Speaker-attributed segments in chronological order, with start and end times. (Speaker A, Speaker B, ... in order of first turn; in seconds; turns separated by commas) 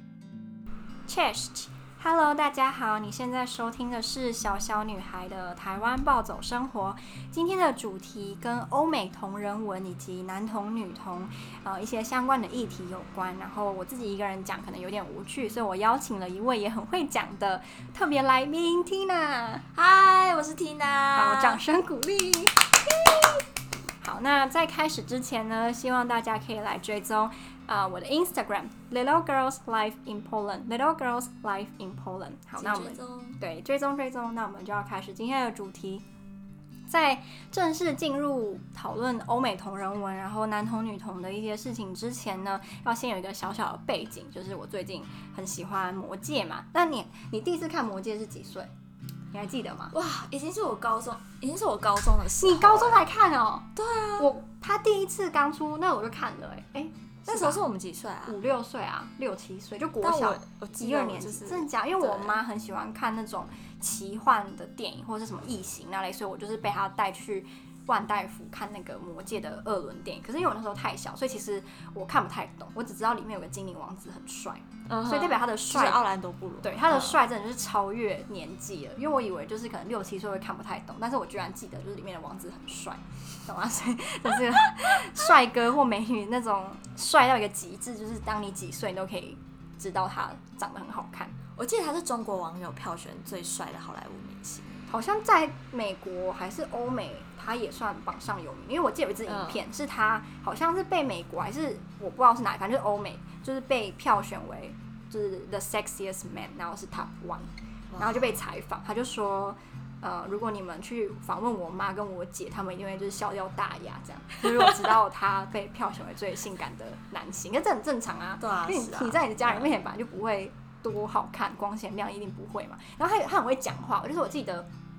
Speaker A: 1.1-19.6, Speaker B: 19.7-21.6, Speaker A: 21.1-23.4, Speaker A: 24.0-36.0, Speaker B: 32.6-33.4, Speaker A: 36.9-48.7, Speaker A: 49.3-49.9, Speaker B: 49.9-53.0, Speaker A: 52.4-53.7, Speaker B: 53.8-54.3, Speaker A: 54.2-57.6, Speaker B: 57.3-58.4, Speaker A: 58.2-76.0, Speaker B: 60.0-62.4, Speaker B: 74.9-77.2, Speaker A: 76.6-91.3, Speaker B: 91.5-94.8, Speaker A: 94.9-124.7, Speaker B: 99.3-99.6, Speaker B: 107.9-108.3, Speaker B: 118.4-119.7